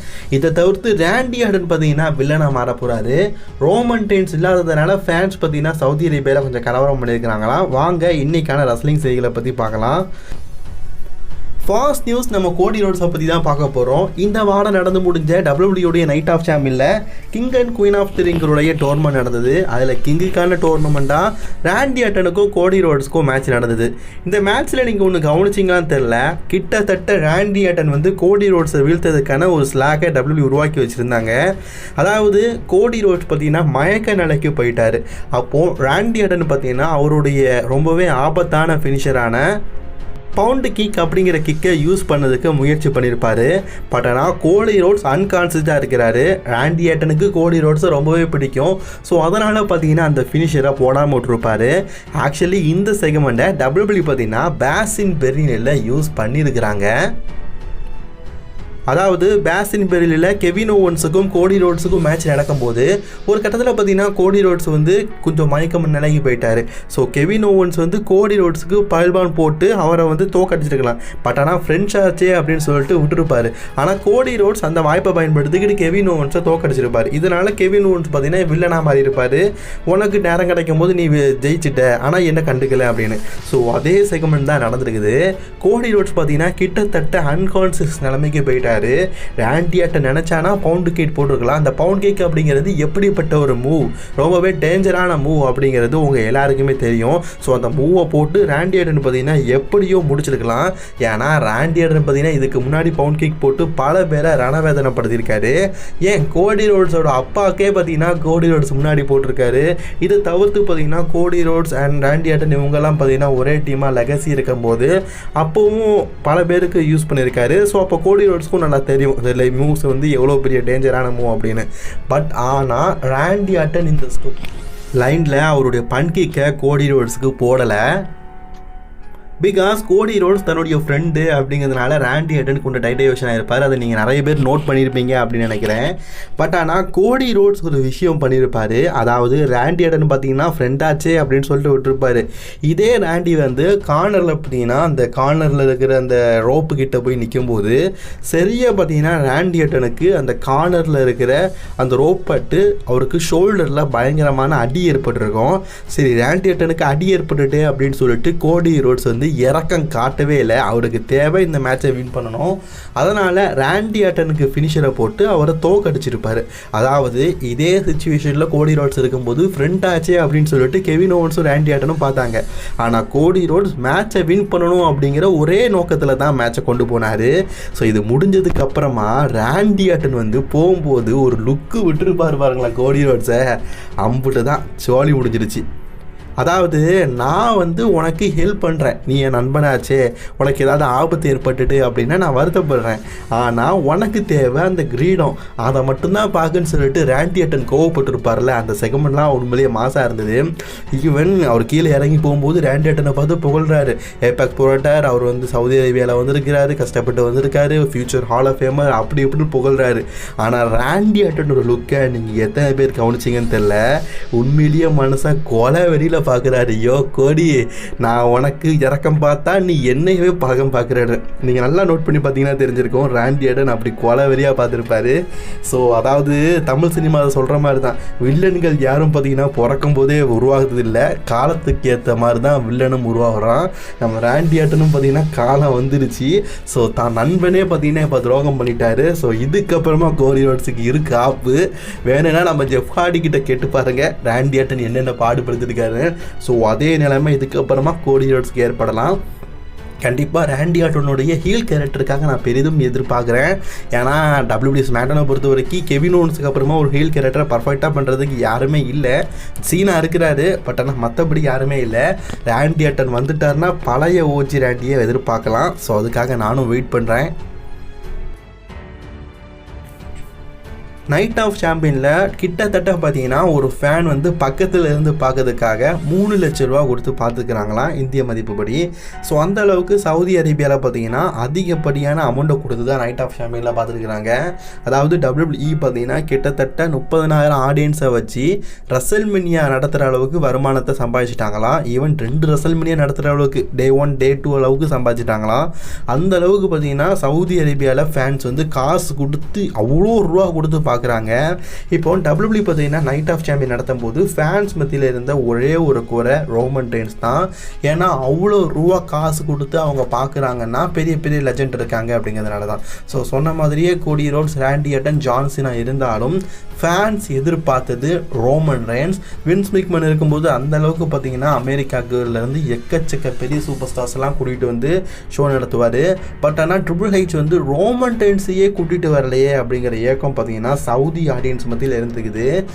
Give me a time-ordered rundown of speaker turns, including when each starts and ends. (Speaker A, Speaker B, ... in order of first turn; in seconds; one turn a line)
Speaker A: 0.3-10.1
Speaker A: 11.7-31.4
Speaker A: 32.0-39.4
Speaker A: 40.4-56.9
Speaker A: 58.9-124.5
Speaker A: 125.0-127.9
Speaker A: 129.4-147.8
Speaker A: 148.3-183.5
Speaker A: 184.0-185.6
Speaker A: 186.4-213.8
Speaker A: 214.3-249.2
Speaker A: 250.0-267.3
Speaker A: 271.1-301.4
Speaker A: 301.9-332.5